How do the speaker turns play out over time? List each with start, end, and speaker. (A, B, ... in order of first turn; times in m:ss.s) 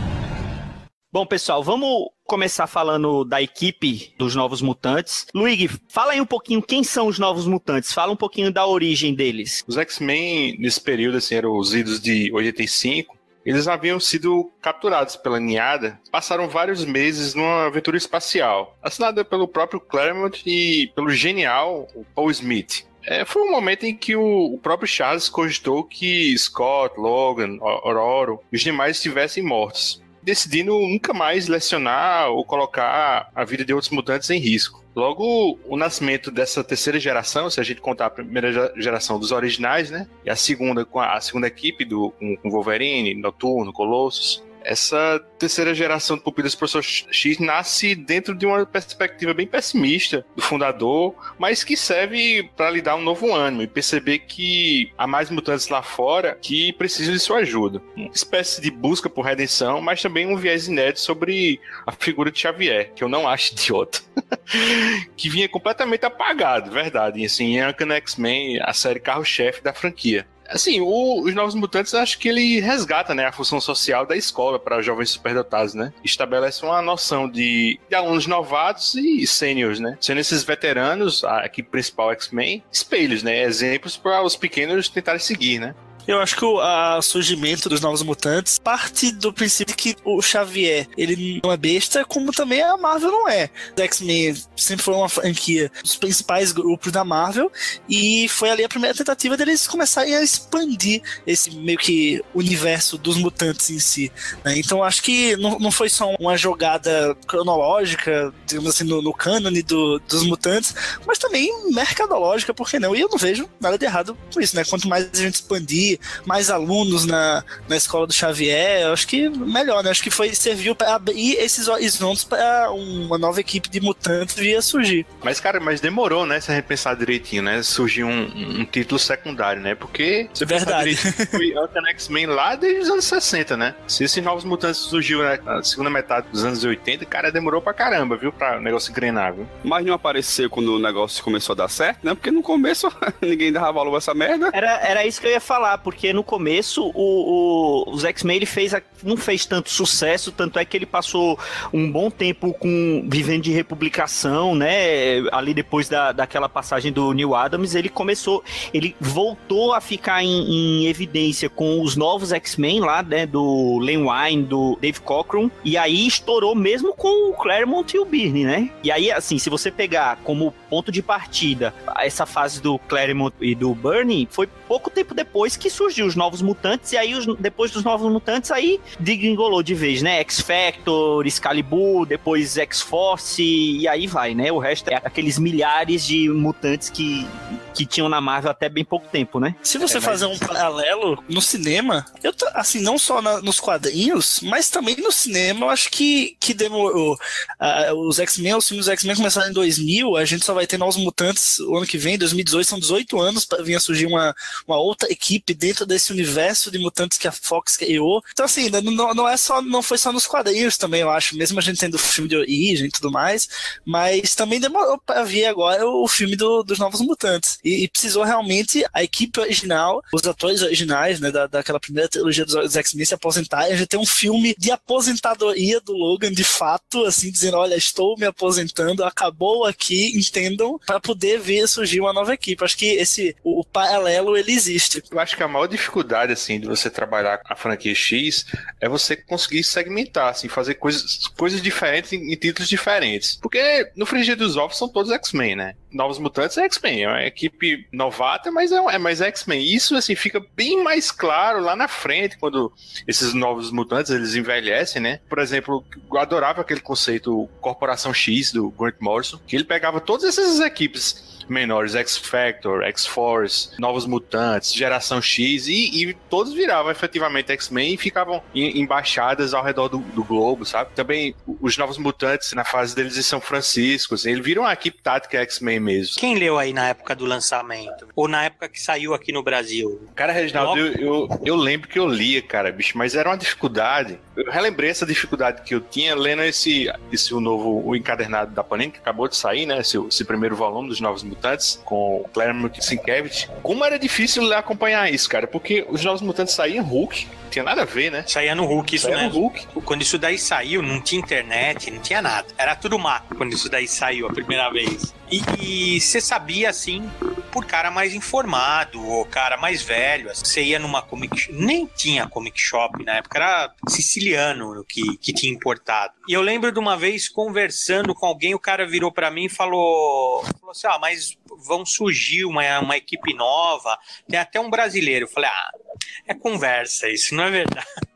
0:01.1-0:09.6 A
0:09.7-1:25.8 B
1:26.1-2:05.1 C
2:05.2-2:19.5 B
2:10.5-2:11.4 C
2:19.6-2:24.5 D
2:24.5-3:10.3 A
3:09.6-3:55.0 C
3:55.1-4:36.2 B
4:36.2-4:40.9 E
4:40.2-4:58.3 B
4:58.3-5:25.7 E
4:59.0-4:59.7 B
5:26.3-5:27.9 E